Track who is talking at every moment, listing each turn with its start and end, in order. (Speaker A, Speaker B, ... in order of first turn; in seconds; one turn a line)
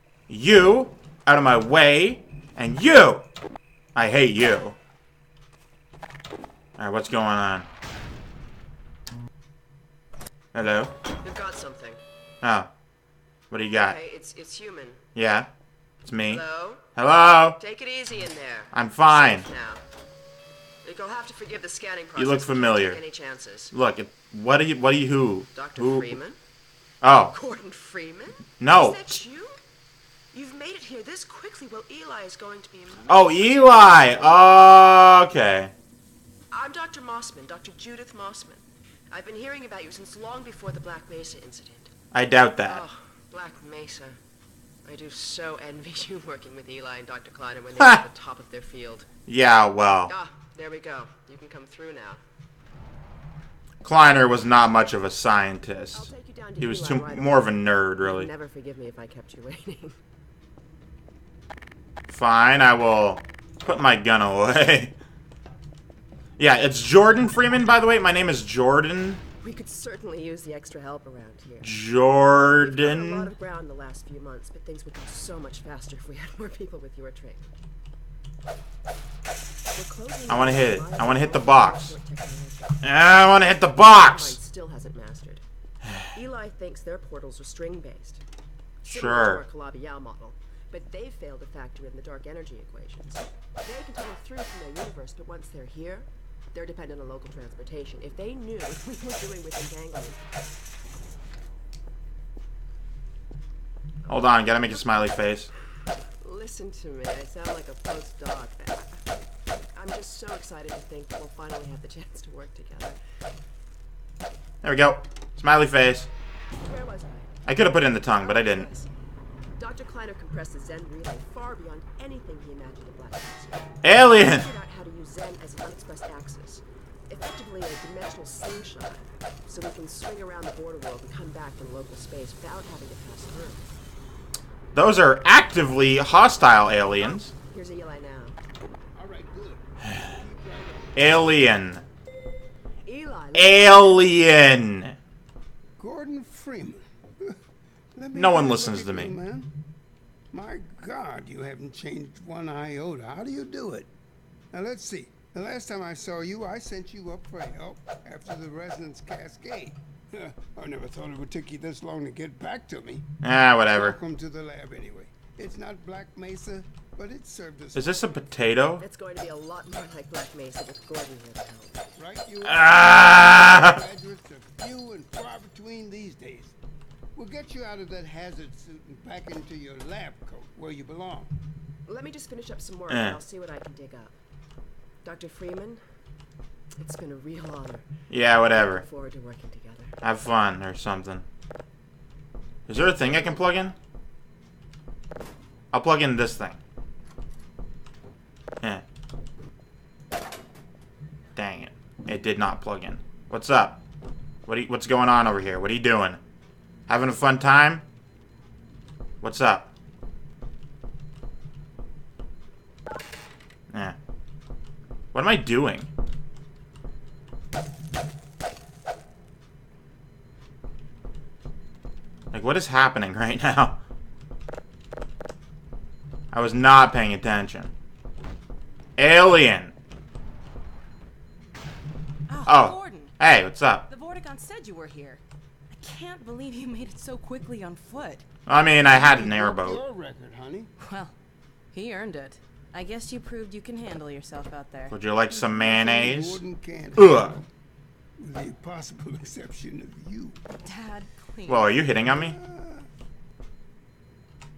Speaker A: 0.3-3.2
Speaker A: 4.0-4.8
Speaker A: 6.8-7.7
Speaker A: 10.5-10.9
Speaker B: 11.2-12.0
Speaker A: 12.4-12.7
Speaker A: 13.5-14.0
Speaker B: 13.7-15.0
Speaker A: 15.2-15.5
Speaker A: 16.1-16.4
Speaker B: 16.2-16.9
Speaker A: 16.9-17.6
Speaker B: 17.6-19.8
Speaker A: 18.7-19.5
Speaker B: 20.8-23.7
Speaker A: 22.2-23.0
Speaker A: 23.7-26.2
Speaker B: 25.5-26.4
Speaker A: 27.0-27.3
Speaker B: 27.2-29.6
Speaker A: 28.6-29.0
Speaker B: 30.3-33.6
Speaker A: 33.1-35.7
Speaker B: 36.5-41.9
Speaker A: 42.1-42.8
Speaker B: 42.6-44.2
Speaker B: 44.9-49.1
Speaker A: 47.8-48.0
Speaker A: 49.3-50.1
Speaker B: 50.1-52.2
Speaker A: 53.8-58.3
Speaker B: 55.9-60.0
Speaker A: 62.1-64.9
Speaker A: 66.4-69.2
Speaker B: 69.4-71.7
Speaker A: 71.6-73.3
Speaker B: 72.6-77.5
Speaker B: 79.7-82.8
Speaker A: 80.3-82.0
Speaker A: 82.8-84.4
Speaker B: 83.5-85.4
Speaker B: 86.1-88.2
Speaker B: 88.8-100.2
Speaker A: 88.9-89.4
Speaker A: 104.1-105.5
Speaker B: 106.2-109.0
Speaker B: 109.8-113.0
Speaker A: 114.6-116.1
Speaker B: 116.6-117.4
Speaker A: 117.5-118.7
Speaker B: 118.2-118.9
Speaker B: 119.6-133.6
Speaker A: 123.8-124.5
Speaker A: 134.7-137.3
Speaker B: 137.0-138.4
Speaker C: 138.9-141.2
Speaker A: 140.9-141.8
Speaker B: 142.8-144.1
Speaker A: 143.3-145.0
Speaker C: 145.8-147.4
Speaker C: 147.9-149.5
Speaker A: 148.1-149.2
Speaker C: 150.3-153.9
Speaker C: 154.5-163.1
Speaker A: 163.2-164.0
Speaker C: 163.7-168.0
Speaker A: 167.8-168.8
Speaker B: 168.8-171.8
Speaker C: 172.0-176.6
Speaker A: 172.4-173.8
Speaker C: 177.2-181.4
Speaker B: 181.9-184.2
Speaker A: 182.9-183.2
Speaker B: 185.0-185.8
Speaker B: 186.8-187.9
Speaker A: 188.1-188.8
Speaker B: 188.5-190.0
Speaker A: 190.0-191.2
Speaker A: 192.7-193.8
Speaker B: 192.9-193.7
Speaker A: 195.7-196.6
Speaker A: 201.4-203.8
Speaker A: 204.5-206.2
Speaker A: 206.9-207.8
Speaker A: 209.2-209.7
Speaker A: 213.7-214.0
Speaker A: 215.1-215.9
Speaker A: 222.3-223.8
Speaker A: 226.3-227.7
Speaker A: 229.0-229.7
Speaker D: 232.3-233.2
Speaker A: 232.5-233.8
Speaker D: 233.9-238.2
Speaker A: 238.5-239.8
Speaker C: 238.8-240.7
Speaker D: 240.8-241.1
Speaker D: 241.7-244.9
Speaker A: 244.9-246.4
Speaker C: 245.3-247.5
Speaker A: 247.0-247.3
Speaker C: 248.2-250.4
Speaker D: 250.6-251.8
Speaker A: 251.5-252.4
Speaker C: 252.1-252.9